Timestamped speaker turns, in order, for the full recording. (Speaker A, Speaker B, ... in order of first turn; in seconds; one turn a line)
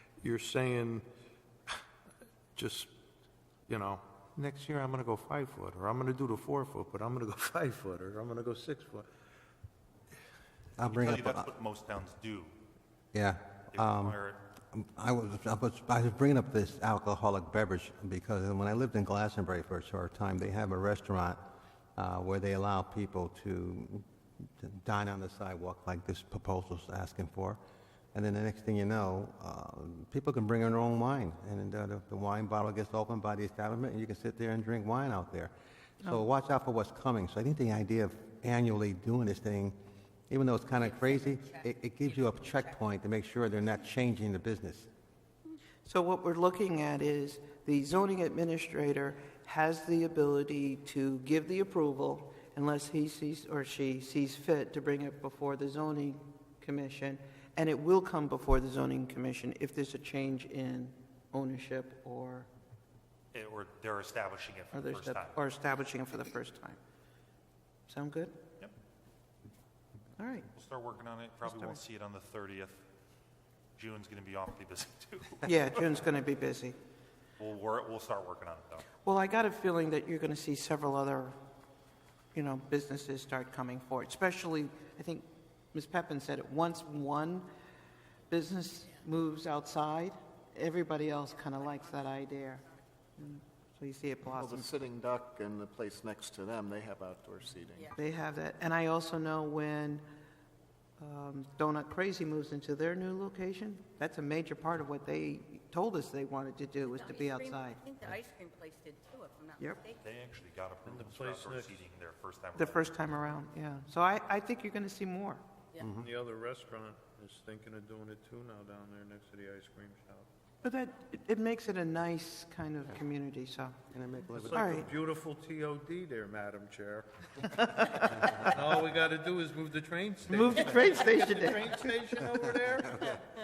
Speaker A: 0.2-1.0
Speaker A: 2.5-2.9
Speaker A: 3.7-9.1
Speaker B: 10.8-11.5
Speaker C: 10.8-12.5
Speaker B: 13.1-14.2
Speaker C: 13.7-14.4
Speaker B: 14.7-21.4
Speaker B: 21.9-27.6
Speaker B: 28.1-39.8
Speaker B: 40.3-44.9
Speaker D: 45.8-62.5
Speaker C: 63.3-65.4
Speaker D: 64.7-66.8
Speaker D: 67.9-68.4
Speaker D: 70.2-70.5
Speaker C: 70.5-72.8
Speaker C: 73.8-75.9
Speaker D: 75.4-76.8
Speaker C: 77.4-78.9
Speaker D: 79.0-81.3
Speaker D: 82.3-87.5
Speaker D: 88.3-92.6
Speaker D: 93.2-94.6
Speaker E: 94.3-97.9
Speaker D: 98.0-100.0
Speaker D: 101.0-107.8
Speaker F: 106.8-110.0
Speaker C: 110.0-113.0
Speaker A: 110.9-111.8
Speaker D: 112.5-115.4
Speaker B: 115.8-116.1
Speaker A: 115.8-120.3
Speaker D: 120.6-123.8
Speaker B: 123.9-124.9
Speaker A: 124.4-133.2
Speaker D: 124.5-124.8
Speaker D: 127.7-128.4
Speaker D: 130.3-132.4